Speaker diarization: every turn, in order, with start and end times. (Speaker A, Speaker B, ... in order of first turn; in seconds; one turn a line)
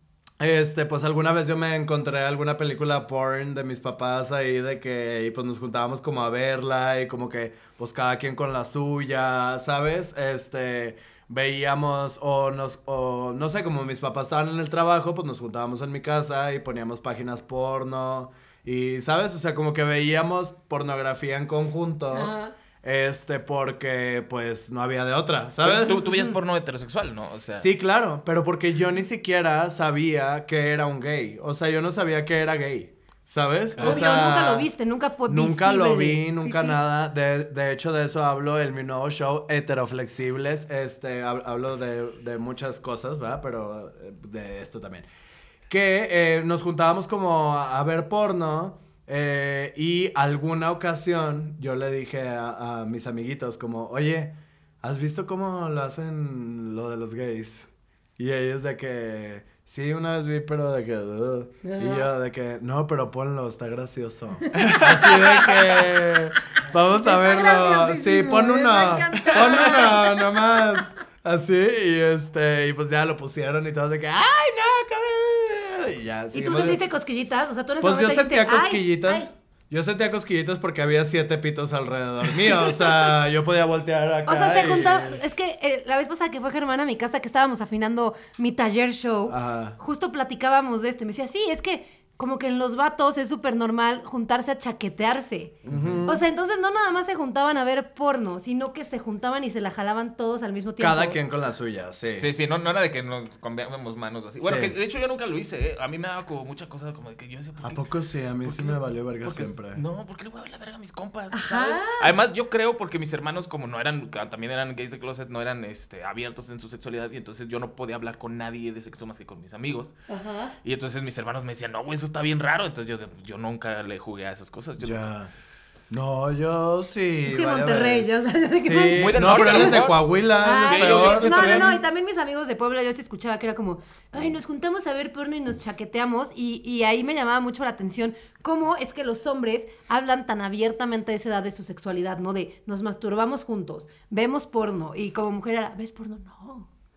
Speaker A: 0.4-26.0
Speaker B: 22.1-22.5
Speaker C: 25.6-27.7
Speaker B: 26.0-26.4
Speaker A: 27.6-34.7
Speaker C: 33.8-34.0
Speaker B: 33.8-36.8
Speaker A: 35.2-45.0
Speaker A: 45.7-76.8
Speaker B: 61.6-62.1
Speaker C: 64.5-65.7
Speaker B: 67.0-70.4
Speaker B: 76.3-79.3
Speaker A: 77.8-85.2
Speaker B: 84.3-101.2
Speaker A: 89.3-89.8
Speaker C: 95.7-96.1
Speaker A: 95.7-96.2
Speaker A: 100.8-102.3
Speaker C: 102.2-107.8
Speaker A: 104.4-104.7
Speaker A: 107.6-109.8
Speaker C: 108.4-119.9
Speaker B: 111.3-112.1
Speaker B: 120.1-120.5
Speaker C: 120.6-125.0
Speaker A: 124.8-125.3
Speaker A: 125.9-128.1
Speaker B: 127.2-129.8
Speaker A: 128.6-131.8
Speaker C: 128.9-131.8
Speaker B: 130.4-146.7